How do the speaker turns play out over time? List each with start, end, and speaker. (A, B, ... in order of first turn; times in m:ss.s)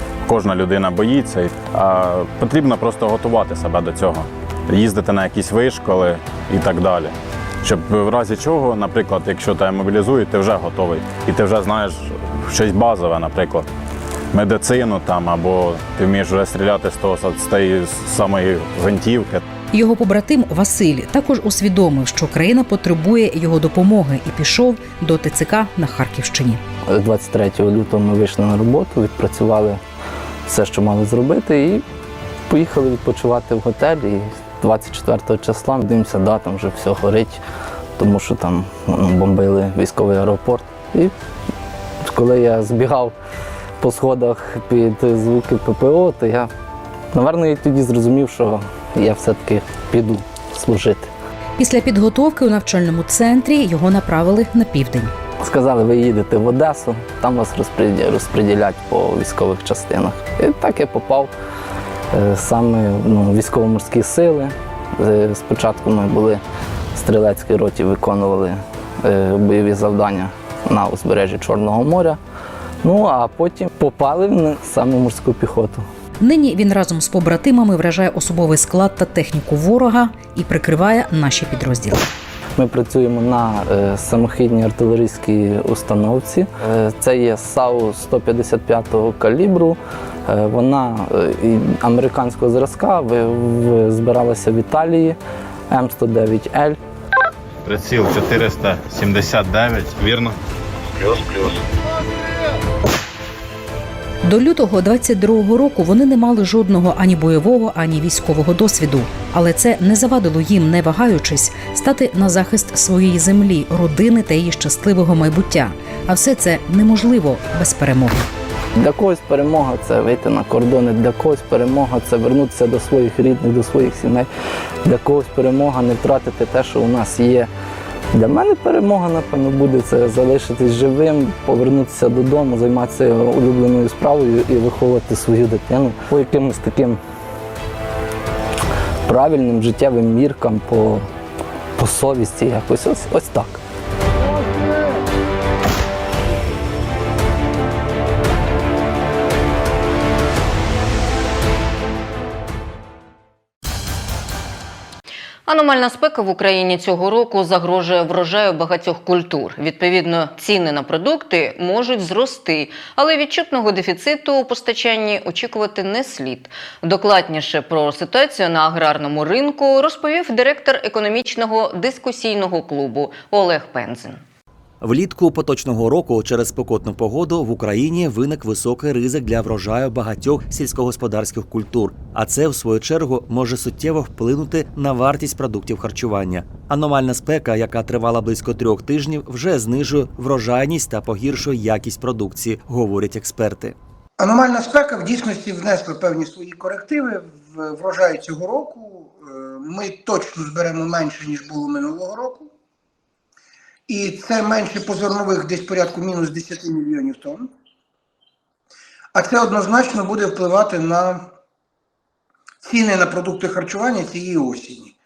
0:00.2-0:13.7 A
0:14.3-0:19.4 A
0:19.7-0:26.6 B
0:26.9-0:29.8 C
0:30.4-0:31.8 C
0:32.5-0:37.4 C
0:38.0-0:41.1 C
0:42.0-0:43.1 C
0:43.8-0:46.5 C
0:47.1-0:51.1 C
0:51.6-0:55.1 B
0:55.4-1:01.3 C
1:02.1-1:06.4 C
1:06.9-1:12.2 C
1:12.8-1:15.8 C
1:16.2-1:22.0 B
1:22.6-1:35.2 C
1:35.7-1:36.8 C
1:37.6-1:40.4 A
1:41.0-1:41.6 A
1:44.2-1:58.3 B
1:58.8-2:04.3 C
2:04.8-2:07.5 C
2:08.1-2:17.0 C
2:19.1-2:21.1 C
2:21.8-2:23.6 C
2:35.5-2:54.2 D
2:54.8-3:13.8 E
3:14.2-3:22.5 F
3:23.9-3:27.5 F
3:29.1-3:31.3 F
3:32.6-3:34.9 F